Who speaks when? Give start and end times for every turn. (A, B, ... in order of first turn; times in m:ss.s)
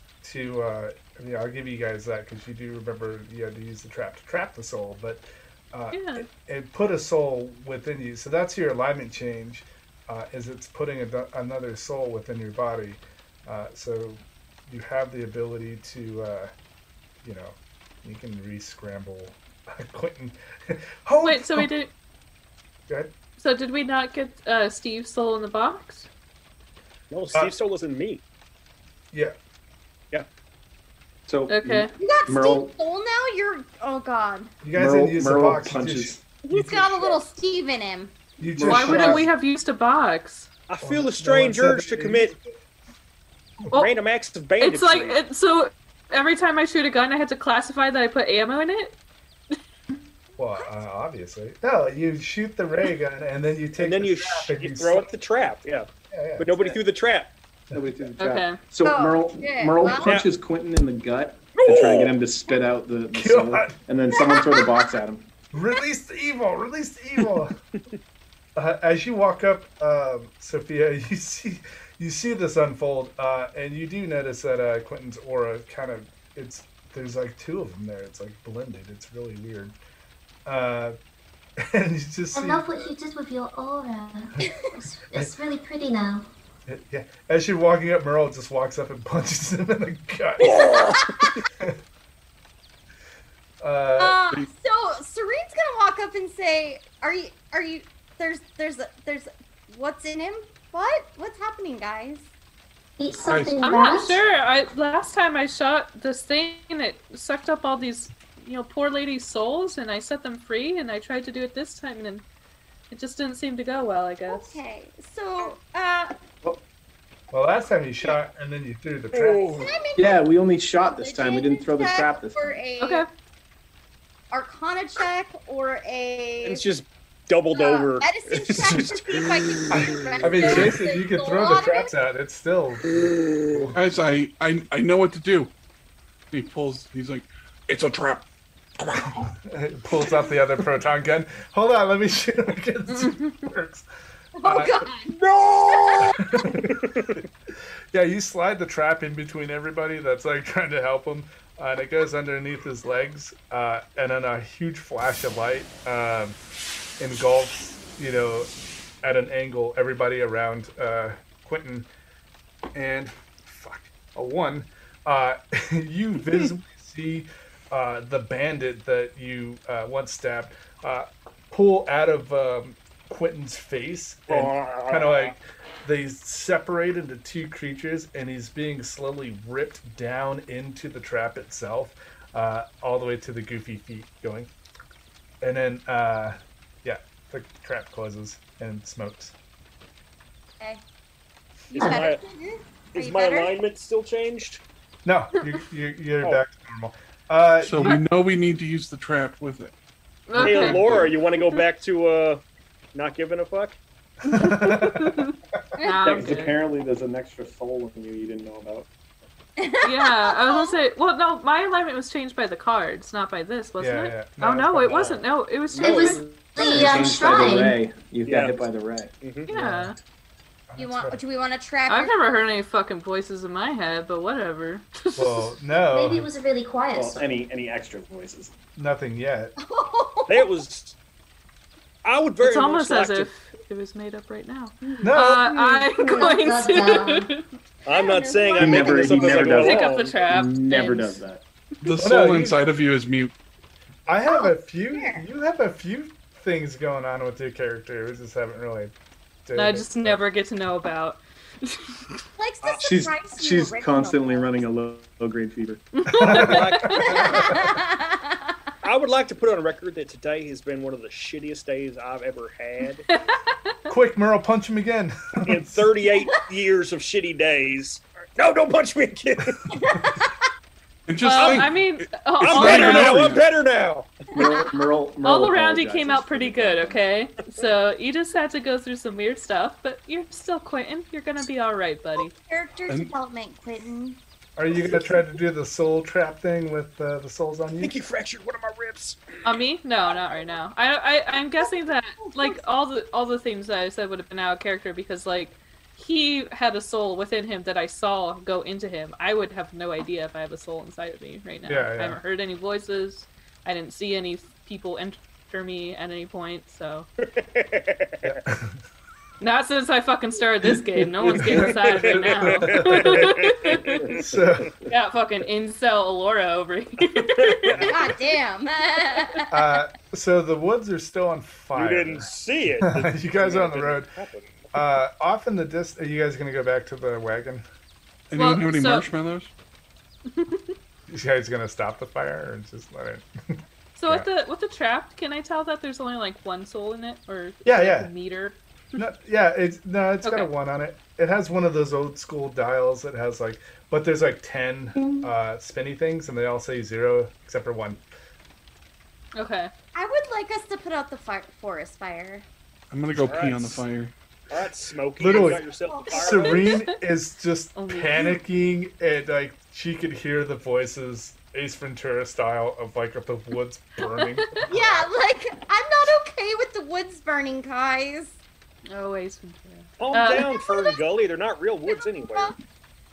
0:00.2-0:16.5 A
0:05.9-0:06.2 B
0:17.2-0:21.7 A
0:21.2-0:21.9 B
0:23.4-0:26.1 B
0:27.1-0:28.2 C
0:31.3-0:32.7 D
0:31.5-0:31.9 B
0:32.0-0:34.6 E
0:34.6-0:37.2 A
0:34.7-0:36.2 D
0:36.4-0:38.1 E
0:38.4-0:39.3 A
0:38.6-0:39.3 D
0:38.6-0:40.5 B
0:40.7-0:42.4 C
0:40.8-0:42.5 A
0:43.7-0:45.2 C
0:44.6-0:48.9 B
0:50.4-0:55.1 A
0:53.8-0:55.9 C
0:56.1-0:56.7 A
0:56.4-0:57.3 C
0:57.7-1:05.3 D
0:58.2-0:58.6 B
0:58.8-1:00.2 E
1:00.0-1:00.3 C
1:01.6-1:02.2 C
1:03.1-1:03.8 A
1:04.1-1:04.9 E
1:05.5-1:07.5 A
1:08.6-1:19.8 A
1:20.4-1:21.0 A
1:21.6-1:22.8 A
1:22.3-1:26.3 F
1:26.7-1:30.6 A
1:30.4-1:31.4 C
1:30.6-1:31.3 E
1:33.6-1:34.2 A
1:34.0-1:42.3 E
1:43.0-1:44.2 F
1:43.2-1:43.6 G
1:43.6-1:52.2 B
1:52.9-1:54.6 B
1:54.3-1:56.1 E
1:57.3-1:59.4 A
1:59.1-1:59.7 C
1:59.5-2:00.2 E
2:00.0-2:02.6 D
2:00.8-2:03.0 E
2:02.8-2:03.1 B
2:04.3-2:06.6 E
2:06.4-2:09.0 C
2:07.5-2:11.9 E
2:10.2-2:13.8 A
2:10.4-2:10.7 G
2:13.7-2:15.5 G
2:16.3-2:18.2 G
2:18.8-2:19.2 G
2:19.2-2:23.8 A
2:22.9-2:23.4 B
2:24.4-2:25.2 E
2:24.4-2:24.8 A
2:25.1-2:27.2 C
2:25.7-2:26.2 E
2:26.1-2:26.8 A
2:27.9-2:36.4 A
2:37.0-2:38.5 A
2:39.0-2:41.9 A
2:42.7-3:04.5 A
2:54.3-2:55.3 C
3:05.4-3:09.3 A
3:11.7-3:13.6 E
3:11.7-3:12.2 C
3:12.9-3:14.6 C
3:15.0-3:18.0 A
3:17.6-3:19.7 G
3:20.3-3:21.0 B
3:20.3-3:21.1 G
3:20.4-3:22.4 C
3:22.9-3:23.8 C
3:24.2-3:25.3 A
3:24.3-3:26.6 B
3:25.8-3:26.2 E
3:26.0-3:28.9 D
3:29.6-3:30.7 E
3:29.8-3:36.2 B
3:33.8-3:35.2 A
3:35.7-3:36.4 C
3:35.8-3:37.8 F
3:36.6-3:39.1 D
3:38.2-3:38.6 C
3:39.2-3:39.5 C
3:39.5-3:40.0 B
3:39.5-3:39.9 A
3:40.7-3:41.2 A
3:40.8-3:42.1 E
3:41.9-3:45.5 B
3:45.1-3:46.3 A
3:45.8-3:47.3 F
3:46.9-3:48.5 D
3:48.8-3:49.5 A
3:49.6-3:50.5 E
3:50.3-3:51.0 C
3:52.0-3:53.3 C
3:52.4-3:57.4 B
3:55.0-3:55.4 A
3:55.2-3:57.3 F
3:57.8-4:00.2 C
3:57.9-3:59.8 E
3:58.6-4:01.4 D
3:59.4-4:01.2 B
4:01.8-4:03.3 G
4:01.9-4:02.6 A
4:04.1-4:08.9 A
4:04.3-4:05.2 E
4:09.4-4:10.2 A
4:09.5-4:12.0 B
4:12.4-4:14.7 E
4:12.6-4:12.9 C
4:12.8-4:15.8 D
4:16.0-4:17.1 B
4:16.1-4:17.7 A
4:16.2-4:17.4 C
4:17.0-4:18.5 E
4:18.8-4:23.0 C
4:23.1-4:23.7 B
4:23.9-4:25.8 A
4:25.4-4:29.6 C
4:29.7-4:30.3 E
4:31.1-4:33.4 G
4:31.2-4:33.3 B
4:31.3-4:31.7 C
4:32.4-4:34.2 C
4:34.3-4:37.0 D
4:34.4-4:34.7 E
4:35.2-4:42.3 B
4:42.2-4:44.2 E
4:44.6-4:47.9 A
4:47.8-4:49.2 C
4:49.4-5:07.1 B
4:52.2-4:52.6 E
5:01.6-5:02.2 A
5:07.2-5:08.4 C
5:08.2-5:08.8 A
5:09.4-5:14.0 B
5:11.3-5:13.4 A
5:11.3-5:14.2 C
5:14.0-5:14.7 A
5:14.9-5:17.9 B
5:17.4-5:17.9 C
5:17.8-5:19.5 E
5:19.5-5:22.3 A
5:21.7-5:24.7 C
5:22.8-5:24.1 A
5:24.7-5:27.6 A
5:28.3-5:29.5 G
5:28.3-5:29.1 B
5:30.3-5:30.7 B
5:31.1-5:34.3 A
5:34.0-5:39.0 B
5:37.6-5:38.1 A
5:39.0-5:48.0 A
5:40.2-5:40.5 B
5:49.4-5:49.7 B
5:49.9-5:52.4 E
5:52.9-5:54.1 G
5:53.1-5:53.8 C
5:54.5-5:56.6 C
5:55.2-6:05.1 A
5:55.3-5:56.8 E
5:57.8-5:58.4 B
6:04.1-6:04.6 B
6:04.7-6:08.3 E
6:08.9-6:10.5 B
6:10.0-6:12.5 C
6:10.3-6:11.0 E
6:11.9-6:12.5 E